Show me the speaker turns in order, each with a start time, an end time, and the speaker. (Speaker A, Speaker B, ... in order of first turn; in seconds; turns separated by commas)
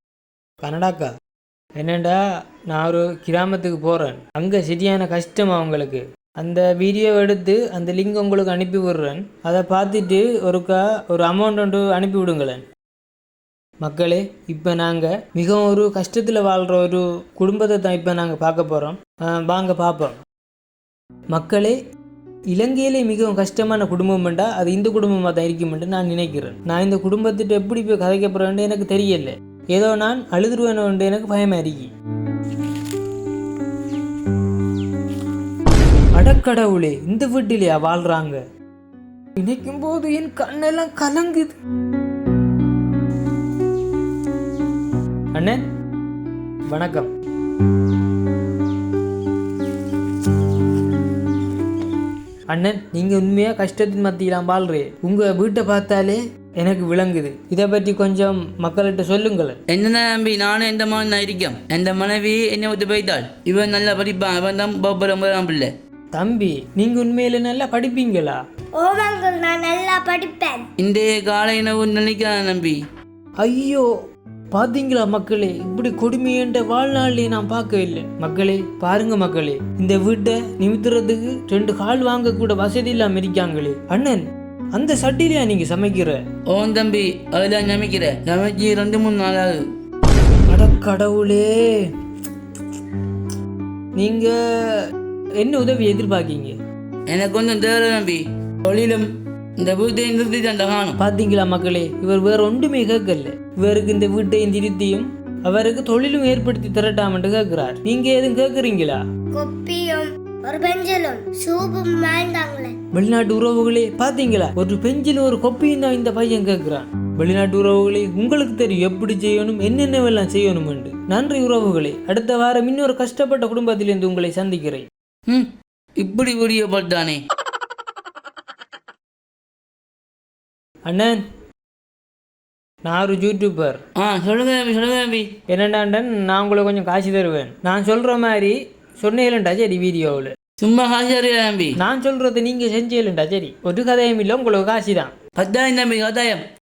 Speaker A: 0.6-1.1, Speaker A: 1.8-2.2, Speaker A: 2.7-12.6, Speaker A: 13.8-20.2, Speaker A: 21.3-21.8, Speaker A: 22.5-31.9, Speaker A: 36.2-38.4, Speaker A: 39.4-41.6, Speaker A: 46.7-47.1, Speaker A: 52.5-59.6, Speaker B: 59.7-65.7, Speaker A: 66.2-68.4, Speaker C: 68.8-70.7, Speaker B: 70.8-72.8, Speaker A: 73.4-73.9, Speaker A: 74.5-86.2, Speaker B: 86.5-89.6, Speaker A: 90.5-91.9, Speaker A: 94.0-94.8, Speaker A: 95.4-96.6, Speaker B: 97.1-101.0, Speaker A: 101.0-109.0, Speaker C: 109.3-112.8, Speaker A: 112.9-124.9, Speaker B: 125.3-127.2, Speaker A: 130.9-131.2, Speaker A: 132.8-133.8, Speaker B: 134.0-135.3, Speaker A: 135.5-140.3, Speaker B: 140.6-141.8, Speaker A: 141.8-145.1, Speaker B: 145.4-146.4